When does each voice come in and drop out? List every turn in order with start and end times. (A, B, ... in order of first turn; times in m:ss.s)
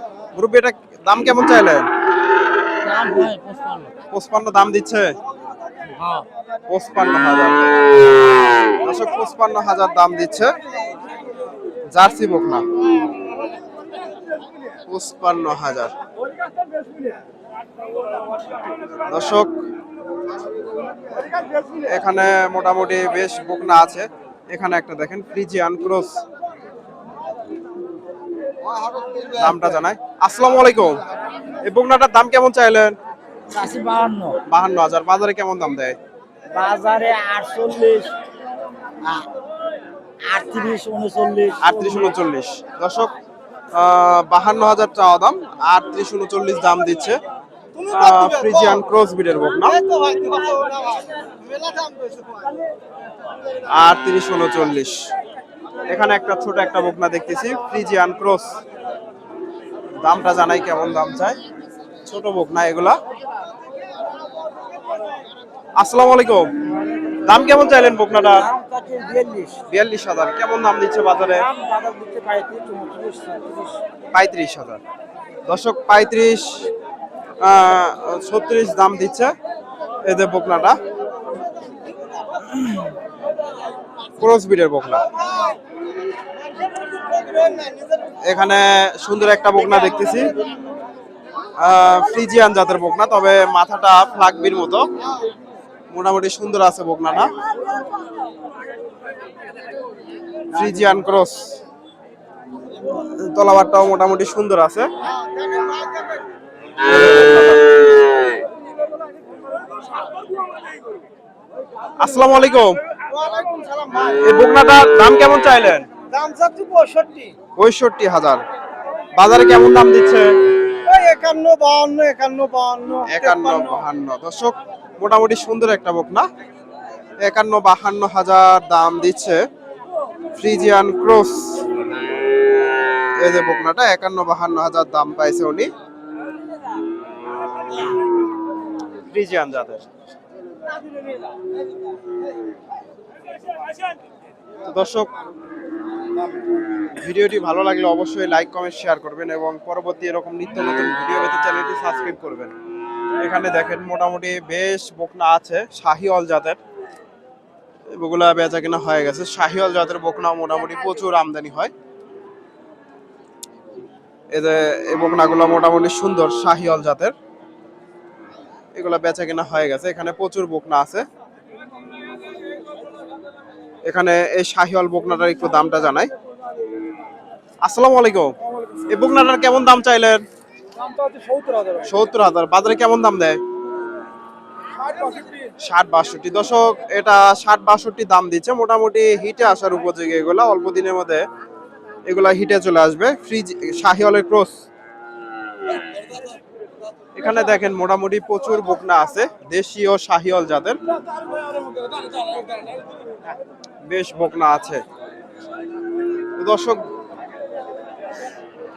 0:00.4-0:01.9 A
0:02.8-0:03.9 B
0:04.1-0:05.1 A
0:05.8-0:06.2 B
0:06.7-0:07.8 A
0:08.8-0:10.5 A
0:11.9-0:12.6 A
0:14.8-0:15.9 A
0:19.1-0:19.5 A
0:21.8-0:26.2 A
0:29.3-0:31.0 A
0:31.6-0:32.9 A
0:33.5-0:34.4 B
0:34.5-0:36.0 A
0:36.5-0:38.1 B
0:40.3-0:42.1 B
0:41.6-0:43.1 A
0:43.7-0:47.2 A
0:47.8-0:48.8 B
0:47.9-0:49.8 A
0:49.7-0:51.1 B
0:51.8-0:52.4 B
0:53.7-0:55.0 A
0:55.9-0:58.5 A
1:00.0-1:01.4 A
1:02.0-1:03.0 A
1:05.8-1:06.5 A
1:06.9-1:07.2 B
1:07.2-1:08.4 A
1:08.2-1:09.6 B
1:09.7-1:11.5 A
1:11.3-1:13.8 B
1:14.1-1:14.8 A
1:15.5-1:16.7 A
1:17.4-1:19.3 A
1:20.0-1:20.8 A
1:24.2-1:25.0 A
1:28.2-1:30.3 A
1:31.6-1:34.8 A
1:35.9-1:37.3 A
1:40.5-1:41.6 A
1:43.0-1:44.9 A
1:45.5-1:46.2 B
1:46.8-1:47.6 A
1:52.0-1:52.8 A
1:53.1-1:54.2 B
1:54.1-1:55.9 A
1:56.1-1:57.3 B
1:57.6-1:58.4 A
1:59.2-2:00.3 A
2:00.8-2:03.9 B
2:03.1-2:06.3 A
2:07.2-2:09.4 A
2:10.4-2:11.7 A
2:13.2-2:15.7 A
2:19.1-2:19.8 A
2:24.6-2:25.1 A
2:27.0-2:32.5 A
2:33.2-2:36.6 A
2:37.9-2:41.7 A
2:44.3-2:47.1 A
2:48.8-2:51.0 A
2:53.8-2:56.1 A
2:57.6-2:58.3 A
2:58.9-3:00.2 A
3:00.9-3:01.8 B
3:01.8-3:03.4 A
3:05.0-3:05.3 B
3:05.6-3:11.2 A
3:12.0-3:14.6 A
3:17.2-3:20.8 A
3:23.8-3:24.8 A
3:26.4-3:26.8 A